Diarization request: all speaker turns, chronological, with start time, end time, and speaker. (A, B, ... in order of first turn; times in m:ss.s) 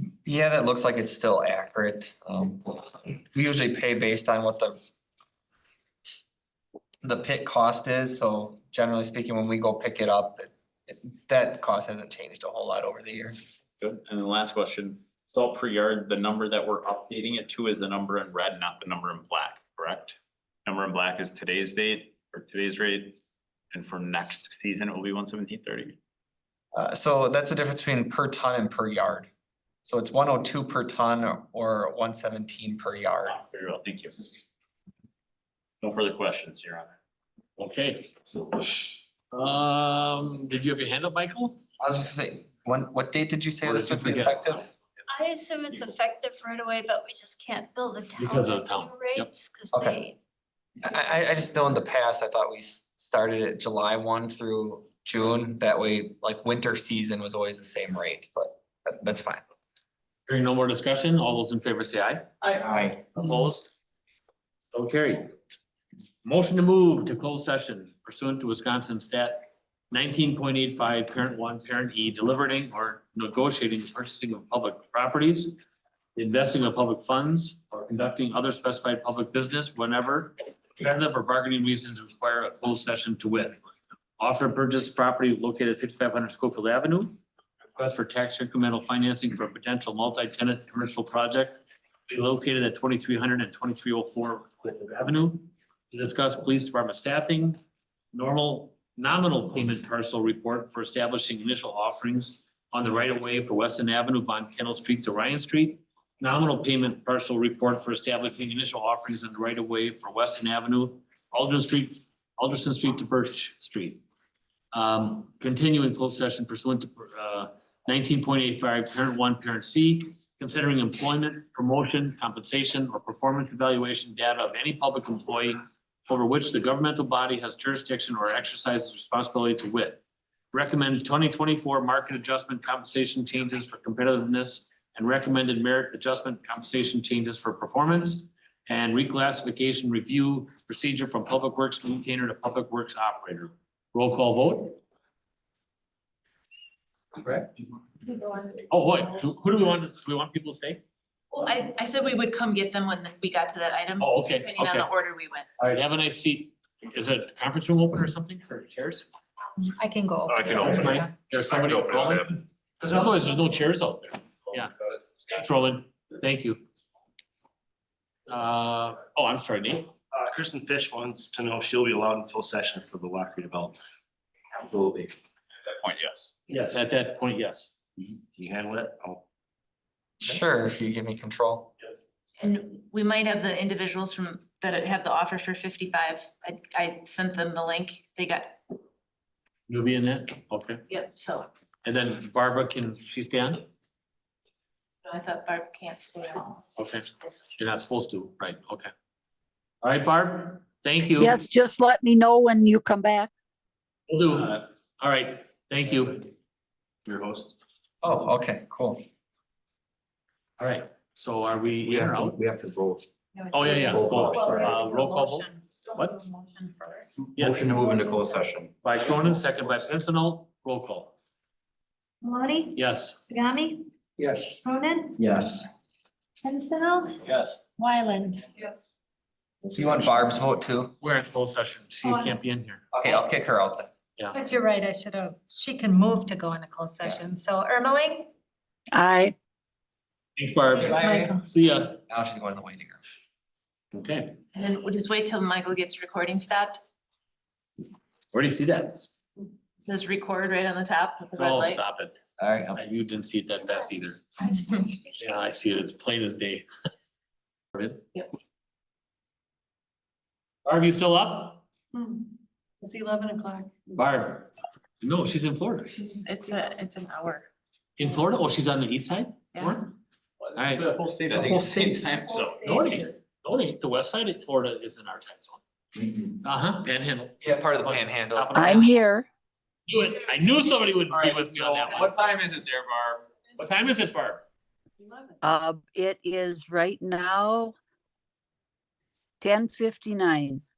0:00.2-0:04.8 A
0:07.0-0:13.4 A
0:13.8-0:23.2 B
0:23.7-0:26.0 B
0:26.7-0:29.3 A
0:29.8-0:33.4 A
0:33.3-0:34.1 B
0:35.8-0:36.9 B
0:37.6-0:38.1 C
0:39.3-0:41.6 C
0:41.8-0:44.7 A
0:43.6-0:44.6 C
0:45.1-0:50.2 D
0:48.2-0:49.3 C
0:49.7-0:50.0 A
0:50.8-0:59.4 A
1:00.3-1:03.7 C
1:04.7-1:05.3 C
1:06.2-1:15.6 C
1:16.1-1:23.6 C
1:24.2-1:27.1 C
1:27.7-1:37.6 C
1:38.1-1:54.0 C
1:54.7-2:24.8 C
2:28.7-2:30.8 C
2:31.3-2:35.5 E
2:34.0-2:34.9 C
2:35.6-2:39.0 C
2:39.7-2:41.1 F
2:40.5-2:44.7 C
2:45.3-2:46.6 C
2:48.3-2:49.9 C
2:50.1-2:53.8 G
2:54.6-2:55.2 G
2:55.7-2:56.3 B
2:56.5-2:57.7 C
2:58.0-2:59.2 G
3:00.2-3:01.7 A
3:02.4-3:08.6 E
3:09.7-3:10.8 C
3:10.9-3:11.5 E
3:11.8-3:13.6 C
3:15.0-3:17.4 E
3:16.8-3:18.9 C
3:19.8-3:21.4 C
3:21.2-3:23.3 H
3:24.1-3:26.3 C
3:27.1-3:27.5 G
3:28.0-3:29.0 A
3:30.6-3:32.4 C
3:31.9-3:33.0 B
3:33.3-3:38.2 F
3:33.5-3:36.2 C
3:34.1-3:34.5 B
3:37.4-3:37.7 C
3:37.4-3:38.7 B
3:38.8-3:41.1 C
3:42.2-3:43.9 F
3:42.7-3:43.2 C
3:44.5-3:45.3 F
3:45.2-3:45.5 B
3:46.4-3:48.8 F
3:47.3-3:47.6 B
3:49.7-3:51.0 A
3:51.0-3:52.8 C
3:52.0-3:52.4 F
3:52.9-3:53.9 A
3:54.3-3:58.3 F
3:59.0-3:59.3 H
4:00.4-4:02.0 C
4:00.7-4:01.4 F
4:02.1-4:03.0 A
4:03.9-4:04.4 C
4:04.5-4:06.8 E
4:08.3-4:09.1 C
4:09.8-4:11.8 E
4:11.4-4:12.2 C
4:12.4-4:12.8 A
4:12.7-4:14.2 C
4:15.1-4:16.6 C
4:17.7-4:18.0 C
4:20.6-4:21.6 C
4:22.8-4:23.7 F
4:24.0-4:25.9 C
4:25.9-4:27.5 E
4:28.0-4:29.9 C
4:30.4-4:33.0 B
4:30.6-4:30.9 C
4:31.3-4:32.0 A
4:32.6-4:35.6 C
4:36.4-4:39.0 C
4:37.4-4:38.7 A
4:38.5-4:39.3 H
4:39.9-4:42.1 C
4:41.1-4:43.2 B
4:43.6-4:44.4 C
4:45.4-4:47.7 H
4:49.4-4:50.6 H